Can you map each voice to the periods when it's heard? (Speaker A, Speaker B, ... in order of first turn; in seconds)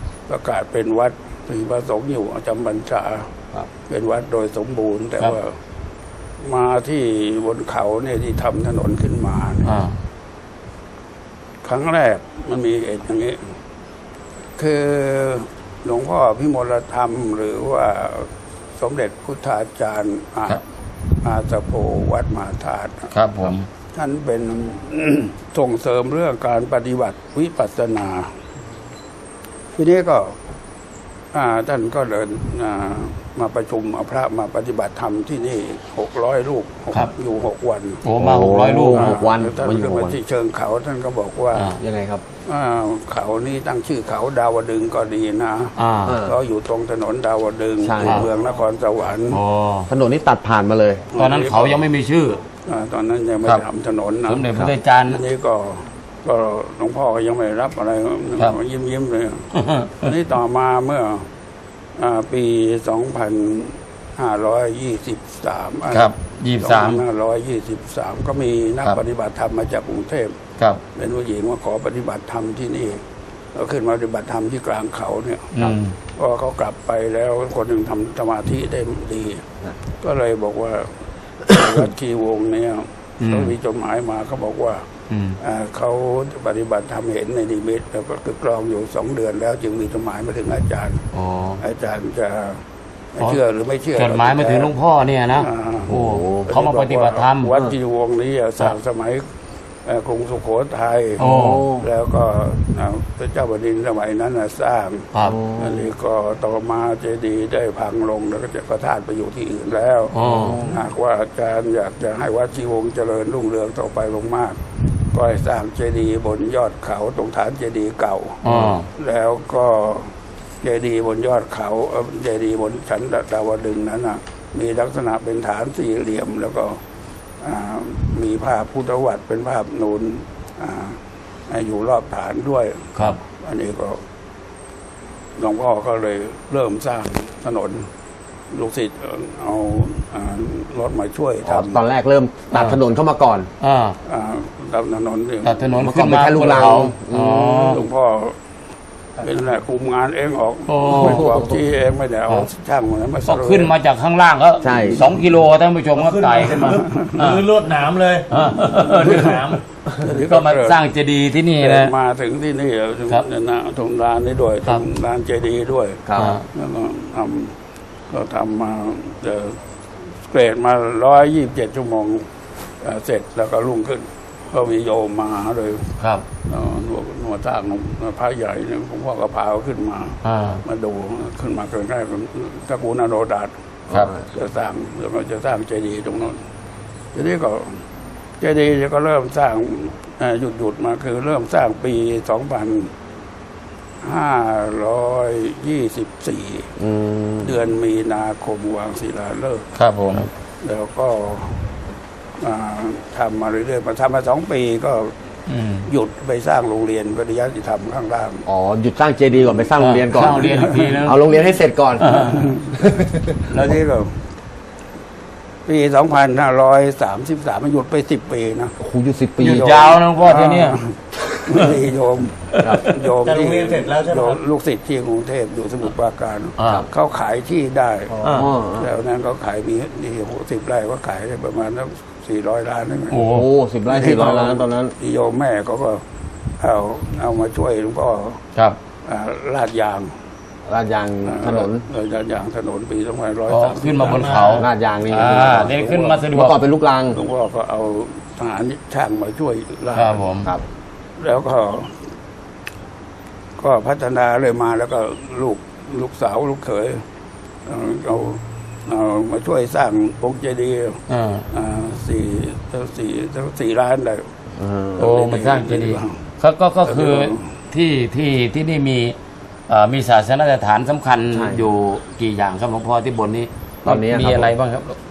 Speaker A: 0.3-3.3, 3.9-5.6, 6.4-9.8, 11.6-13.5, 14.6-20.6, 21.2-23.1, 23.9-28.3, 29.8-30.4, 31.3-38.0, 38.9-41.7, 42.5-49.4, 51.1-51.8, 52.6-54.5, 55.1-61.3, 62.0-70.4, 71.0-79.5, 80.0-84.9, 85.4-91.0, 91.6-92.6, 93.2-94.7, 95.4-95.9, 96.5-99.3, 99.8-101.2, 101.8-114.6, 115.1-126.8, 127.4-134.0, 135.4-137.9, 138.5-141.8, 144.1-145.8, 147.7-148.4, 149.2-153.7, 156.8-157.1, 159.9-160.8, 161.6-166.0, 166.5-167.6, 168.1-169.6, 170.2-172.3, 172.8-175.9, 176.4-183.5, 184.3-186.4, 187.1-187.8, 188.4-192.9, 194.0-196.7, 197.4-199.7, 200.6-201.6, 202.4-205.1, 205.9-208.4, 210.5-211.0, 213.5-214.2, 215.7-218.8, 219.5-228.2, 228.8-233.2, 233.9-236.0, 236.6-238.4, 239.1-240.1, 241.2-244.3, 247.1-250.2, 251.2-252.0, 253.6-257.0, 257.7-264.3, 265.0-266.2, 266.9-267.5
Speaker B: 9.7-9.9, 23.1-23.7, 38.0-39.2, 41.5-41.8, 45.8-46.2, 49.3-49.9, 51.2-52.4, 54.3-55.2, 59.5-60.1, 65.9-67.0, 75.5-76.0, 83.2-83.5, 85.1-85.4, 91.1-91.6, 94.0-97.5, 101.2-101.7, 110.1-110.7, 118.4-118.9, 142.5-142.8, 143.6-144.0, 145.4-147.8, 150.7-151.3, 153.3-157.5, 158.3-159.6, 160.3-161.9, 166.2-166.5, 176.0-176.2, 180.2-180.6, 199.8-200.3, 205.5-205.9, 209.8-211.2, 212.0-212.5, 213.5-213.8, 219.4-220.8, 222.6-223.1, 226.6-226.8, 228.2-228.5, 233.1-233.5, 243.5-246.6, 249.9-250.5, 261.1-261.5, 265.0-269.1, 269.7-275.0
Speaker C: 38.2-40.2, 41.8-42.2, 46.1-46.4, 47.8-48.3, 49.9-51.1, 95.9-96.5, 101.2-101.9, 105.2-105.8, 110.2-110.8, 118.5-118.8, 141.4-143.5, 145.8-147.8, 154.6-155.1, 166.1-166.4, 183.9-184.2, 196.8-197.5, 208.5-213.4, 218.8-220.0, 228.3-228.9, 233.3-234.9, 240.7-241.8, 244.6-247.2, 264.6-265.1, 271.3-271.7, 273.9-274.5
Speaker D: 156.0-159.6, 223.2-224.4, 228.1-228.4, 244.0-244.7